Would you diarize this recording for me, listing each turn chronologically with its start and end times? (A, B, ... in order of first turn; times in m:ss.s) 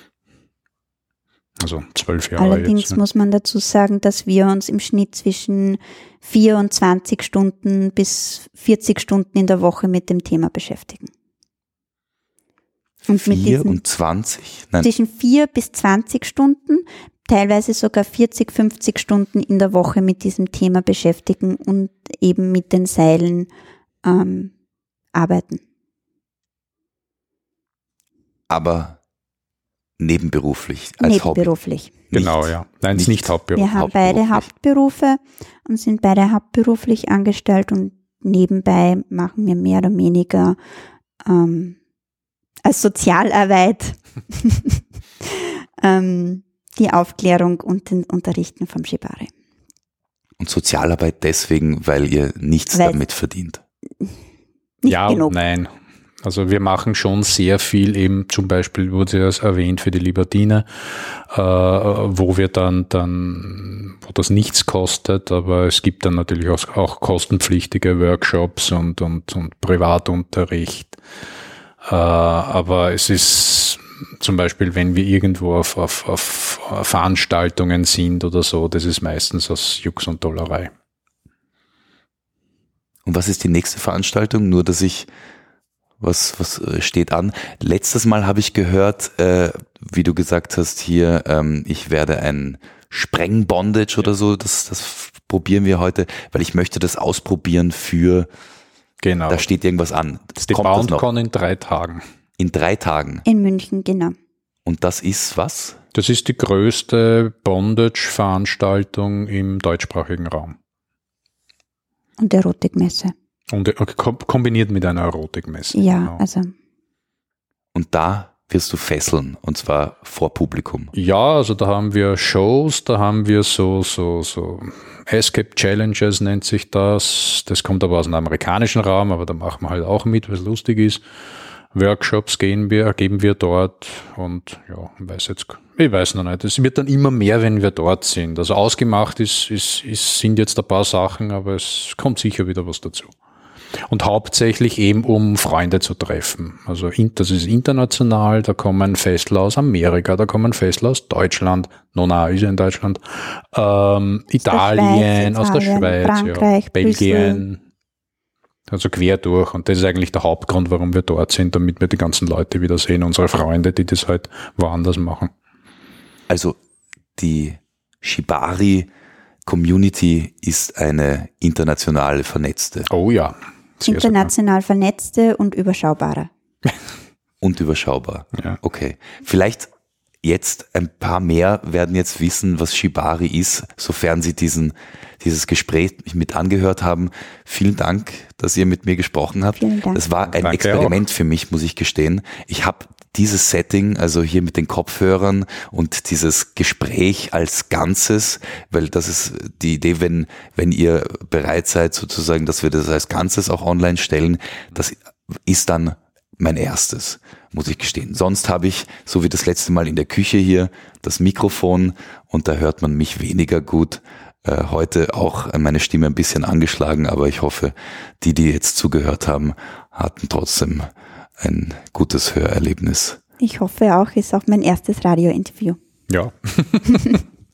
0:01.6-0:03.0 A
0:02.4-0:11.1 B
0:13.1-0:13.8 B
0:13.1-0:14.9 C
0:14.8-0:23.5 B
0:24.0-0:24.5 B
0:25.1-0:25.6 B
0:28.5-0:29.0 C
0:30.0-0:31.5 C
0:31.0-0:32.0 B
0:32.1-0:34.4 C
0:32.1-0:33.9 A
0:33.6-0:40.6 B
0:41.2-0:41.8 B
0:42.6-0:49.3 B
0:50.4-0:53.6 C
0:54.8-0:55.3 B
0:54.8-0:55.7 A
0:56.2-1:11.0 A
1:11.9-1:20.7 A
1:23.0-1:25.1 C
1:26.0-1:38.3 C
1:39.0-1:39.5 A
1:39.3-1:41.0 C
1:40.4-1:42.0 A
1:42.4-1:43.2 C
1:43.2-1:44.1 B
1:44.6-1:45.8 C
1:45.9-1:50.6 A
1:52.2-1:53.1 B
1:53.5-1:56.2 A
1:55.7-1:56.5 B
1:57.7-2:00.9 C
2:00.9-2:11.0 A
2:11.7-2:23.1 A
2:23.9-2:37.6 A
2:34.4-2:37.4 B
2:38.7-2:45.3 A
2:46.3-2:46.6 C
2:47.2-2:48.9 C
2:49.4-2:52.9 C
2:52.9-2:54.3 A
2:53.8-2:56.3 B
2:57.4-2:59.7 C
3:00.2-3:40.9 C
3:09.6-3:10.0 B
3:10.3-3:10.9 A
3:41.4-3:43.2 C
3:43.4-3:45.8 B
3:46.1-3:47.0 A